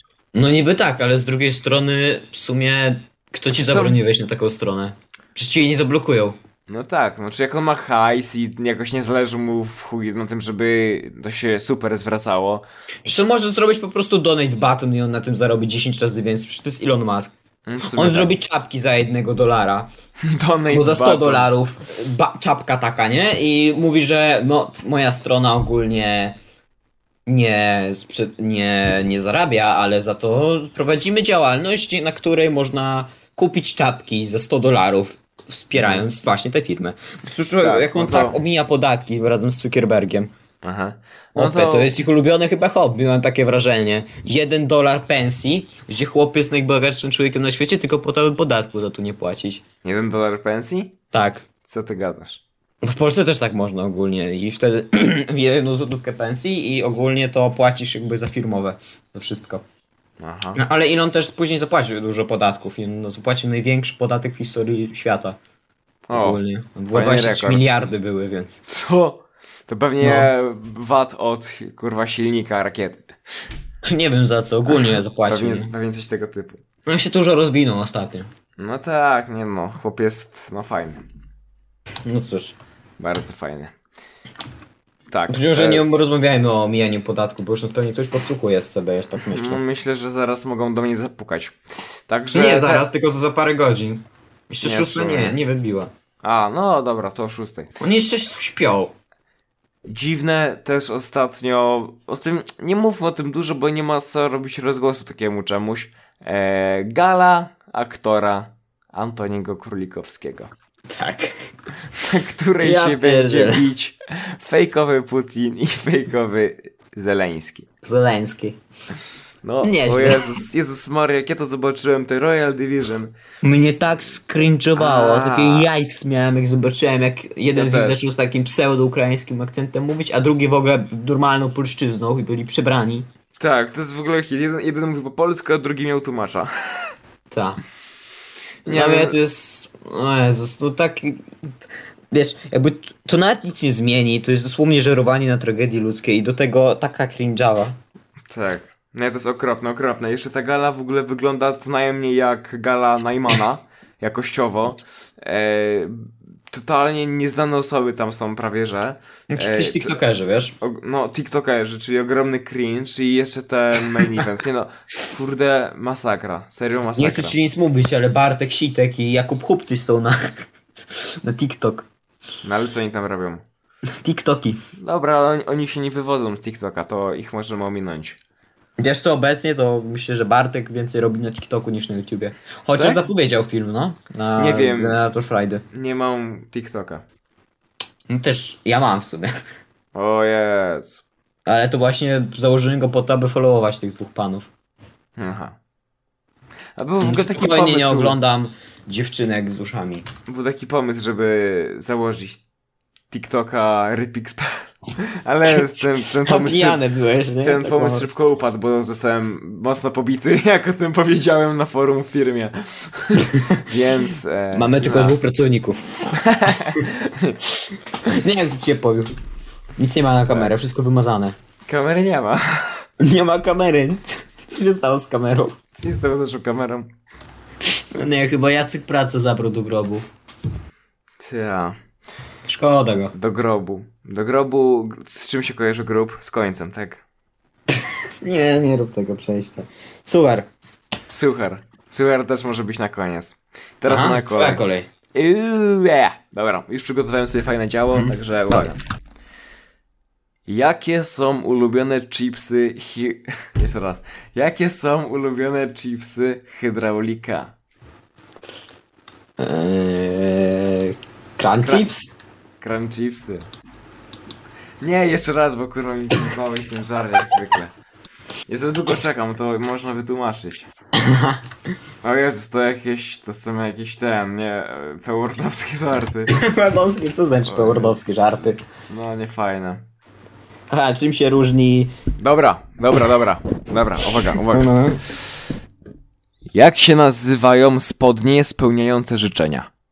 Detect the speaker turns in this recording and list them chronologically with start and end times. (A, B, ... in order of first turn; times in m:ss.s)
0:00.4-0:06.4 A
0:03.5-0:04.0 B
0:06.7-0:12.6 B
0:13.0-0:19.9 A
0:17.6-0:18.4 B
0:20.2-0:21.5 B
0:20.7-0:26.4 A
0:27.3-0:40.3 A
0:35.8-0:36.1 B
0:37.6-0:38.4 B
0:40.6-0:42.0 B
0:41.4-0:49.6 A
0:49.8-0:51.0 B
0:51.1-0:51.4 A
0:51.6-0:52.4 B
0:52.8-0:59.6 A
1:00.2-1:00.6 B
1:00.6-1:05.4 A
1:06.1-1:07.8 B
1:06.1-1:08.6 A
1:08.7-1:13.1 B
1:10.0-1:10.3 A
1:13.8-1:15.7 A
1:14.7-1:16.6 B
1:16.9-1:18.3 A
1:18.6-1:21.0 B
1:22.1-1:22.6 A
1:23.0-1:23.7 B
1:25.1-1:25.8 B
1:25.3-1:29.6 A
1:29.2-1:31.6 B
1:32.1-1:32.9 B
1:32.3-1:35.9 A
1:34.6-1:35.4 B
1:36.2-1:37.7 B
1:37.8-1:38.9 A
1:39.9-1:50.5 B
1:50.9-1:51.3 A
1:51.9-1:57.7 B
1:52.6-1:53.7 A
1:57.8-1:58.6 A
1:59.4-2:03.1 B
1:59.6-2:00.4 A
2:03.4-2:13.1 A
2:04.8-2:05.7 B
2:07.5-2:08.0 B
2:13.4-2:16.9 B
2:17.3-2:17.6 A
2:18.6-2:19.2 B
2:18.6-2:21.3 A
2:22.1-2:27.8 A
2:28.3-2:40.0 B
2:39.3-2:40.6 A
2:40.6-2:47.4 B
2:47.0-2:50.2 A
2:51.0-2:51.9 A
2:52.4-2:53.4 B
2:54.0-2:54.6 A
2:54.8-2:58.2 B
2:58.8-3:05.6 A
3:02.8-3:03.0 B
3:04.4-3:05.0 B
3:05.7-3:07.0 B
3:08.1-3:09.3 A
3:09.9-3:11.0 B
3:11.4-3:14.5 A
3:15.2-3:15.6 B
3:16.8-3:18.2 B
3:17.0-3:20.1 A
3:20.3-3:22.4 B
3:23.1-3:26.8 B
3:25.5-3:28.1 A
3:27.4-3:35.2 B
3:33.3-3:33.6 A
3:34.5-3:36.9 A
3:36.1-3:37.4 B
3:38.0-3:39.1 A
3:39.8-3:41.4 A
3:41.6-3:42.8 B
3:43.0-3:45.6 A
3:45.7-3:46.9 B
3:47.9-3:50.1 A
3:51.2-3:51.8 B
3:52.5-3:53.1 A
3:53.1-3:57.0 B
3:58.2-4:00.5 A
4:01.1-4:04.6 B
4:03.9-4:04.9 A
4:05.1-4:08.8 B
4:07.9-4:08.7 A
4:10.5-4:17.5 B
4:19.4-4:22.1 A
4:21.6-4:21.9 B
4:22.6-4:23.4 B
4:24.8-4:27.7 B
4:28.5-4:30.7 B
4:31.0-4:31.4 A
4:32.0-4:36.3 B
4:36.3-4:38.6 A
4:37.4-4:37.9 B
4:38.9-4:39.8 B
4:40.7-4:41.9 A
4:42.2-4:44.7 B
4:44.5-4:45.0 A
4:46.5-4:49.7 B